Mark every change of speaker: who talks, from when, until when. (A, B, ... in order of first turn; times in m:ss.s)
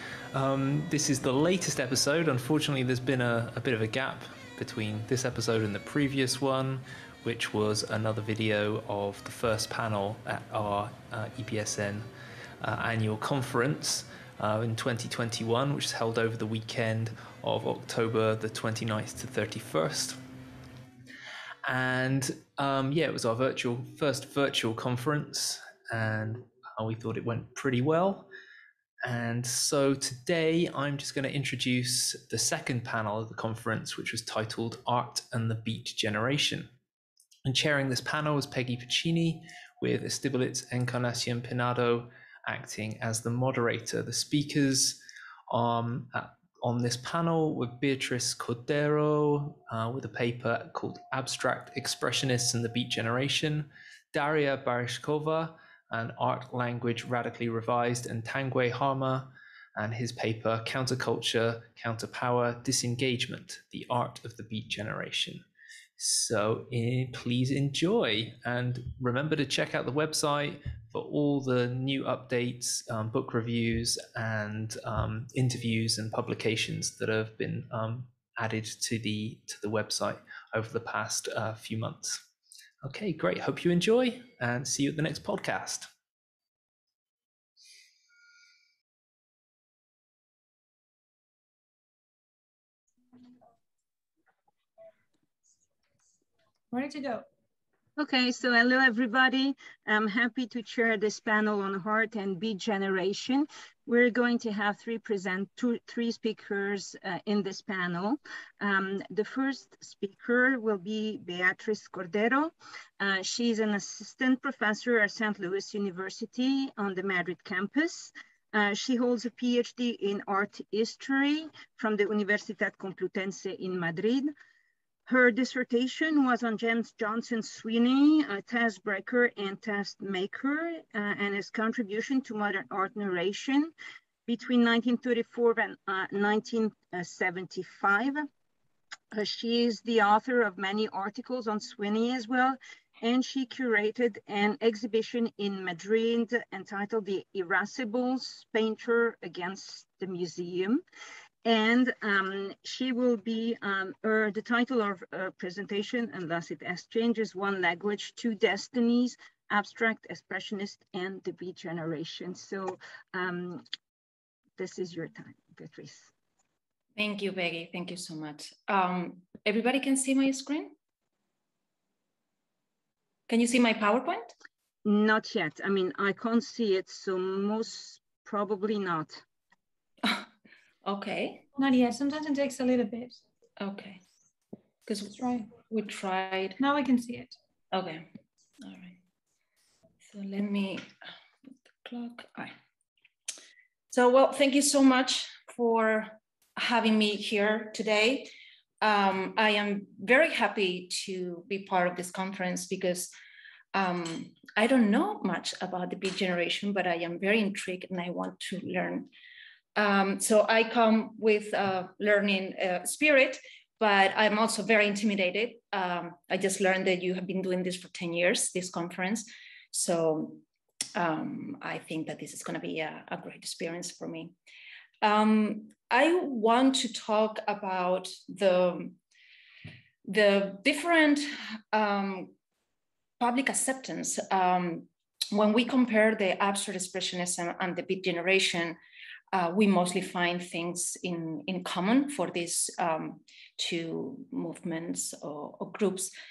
0:00.3-0:12.1 A
0:12.6-0:20.2 A
0:21.7-0:28.3 A
0:29.0-0:36.7 A
0:37.4-0:45.0 A
0:45.5-1:05.4 A
1:06.0-1:22.2 A
1:22.8-1:25.9 A
1:36.7-1:37.2 B
1:38.0-2:04.3 C
2:05.1-2:13.7 C
2:14.3-2:18.3 C
2:19.1-2:30.8 C
2:31.4-2:43.6 C
2:44.6-2:46.1 C
2:47.0-2:50.8 D
2:53.3-2:54.3 D
2:54.8-2:59.2 C
3:00.8-3:01.4 D
3:01.6-3:03.2 B
3:03.6-3:04.0 D
3:04.9-3:06.6 D
3:05.2-3:05.5 B
3:06.6-3:07.4 B
3:07.7-3:08.1 D
3:08.6-3:09.0 D
3:10.1-3:10.8 D
3:11.8-3:12.5 D
3:13.9-3:18.3 D
3:18.8-3:23.1 D
3:23.7-3:29.1 D
3:29.8-3:40.4 D
3:41.0-3:44.4 D
3:45.0-3:49.0 D
3:50.1-3:52.3 D
3:53.2-3:58.8 D
3:59.3-4:06.1 D